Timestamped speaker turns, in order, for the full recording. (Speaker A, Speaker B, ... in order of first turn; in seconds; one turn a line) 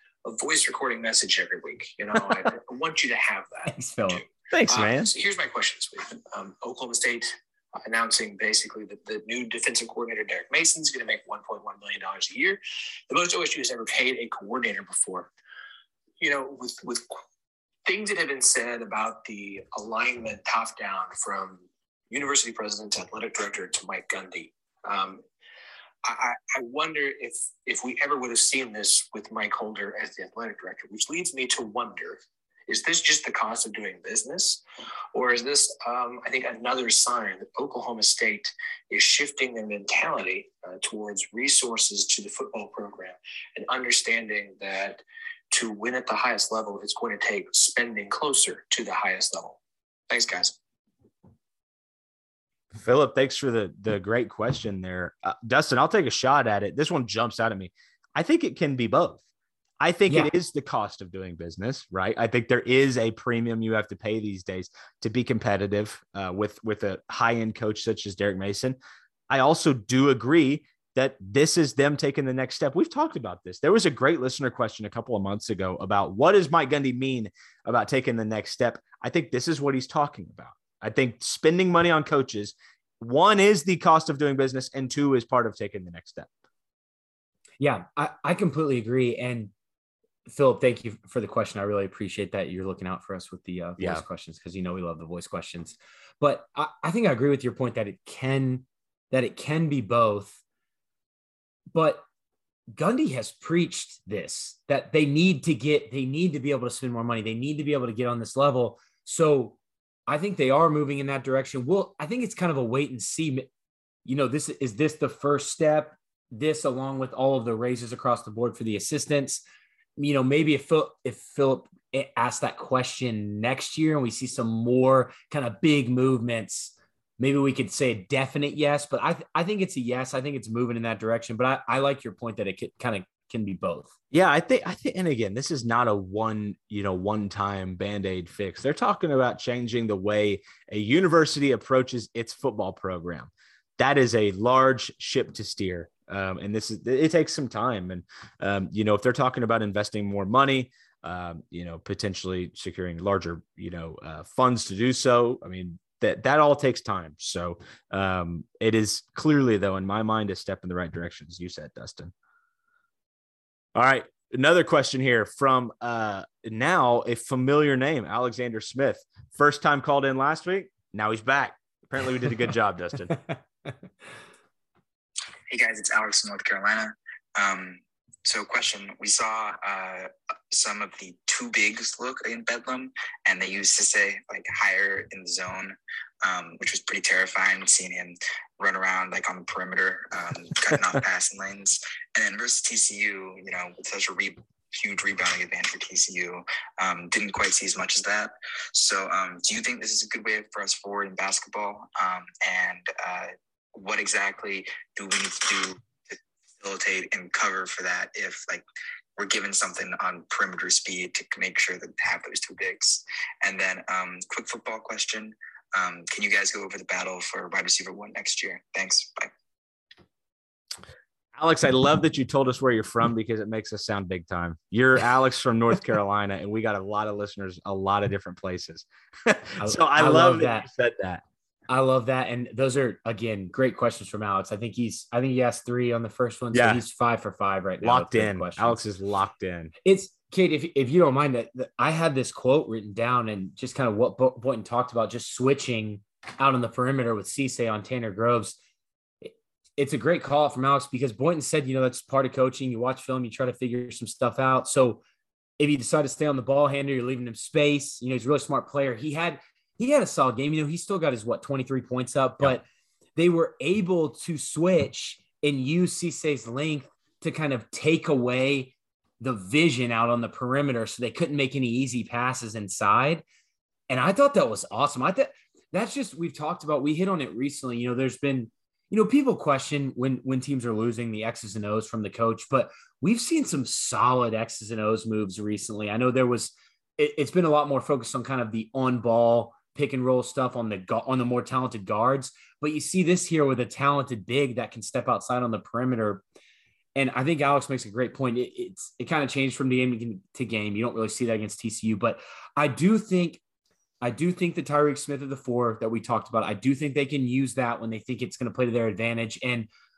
Speaker A: 0.2-15.3
Speaker B: 3.7-4.2
Speaker C: 4.5-5.1
Speaker A: 16.2-17.1
Speaker A: 17.9-25.2
Speaker A: 26.0-34.6
Speaker A: 35.1-49.6
Speaker A: 50.1-50.6
Speaker C: 52.7-59.2
Speaker C: 59.8-68.8
Speaker C: 69.3-86.3
Speaker B: 87.6-89.5
Speaker B: 90.3-100.4
Speaker C: 93.8-94.0
Speaker B: 101.7-102.0
Speaker B: 102.7-109.6
Speaker B: 110.1-113.5
Speaker B: 114.0-119.4
Speaker B: 120.0-133.9
Speaker C: 134.1-162.1
Speaker C: 163.7-173.2
Speaker D: 175.5-205.8
Speaker D: 206.6-208.6
Speaker D: 209.2-219.3
Speaker C: 221.4-231.2
Speaker B: 229.6-230.7
Speaker B: 231.7-238.8
Speaker C: 236.5-236.8
Speaker C: 237.8-239.7
Speaker B: 239.8-248.6
Speaker B: 249.2-255.0
Speaker B: 255.6-273.2
Speaker B: 273.9-296.2
Speaker B: 296.9-303.4
Speaker B: 304.0-309.7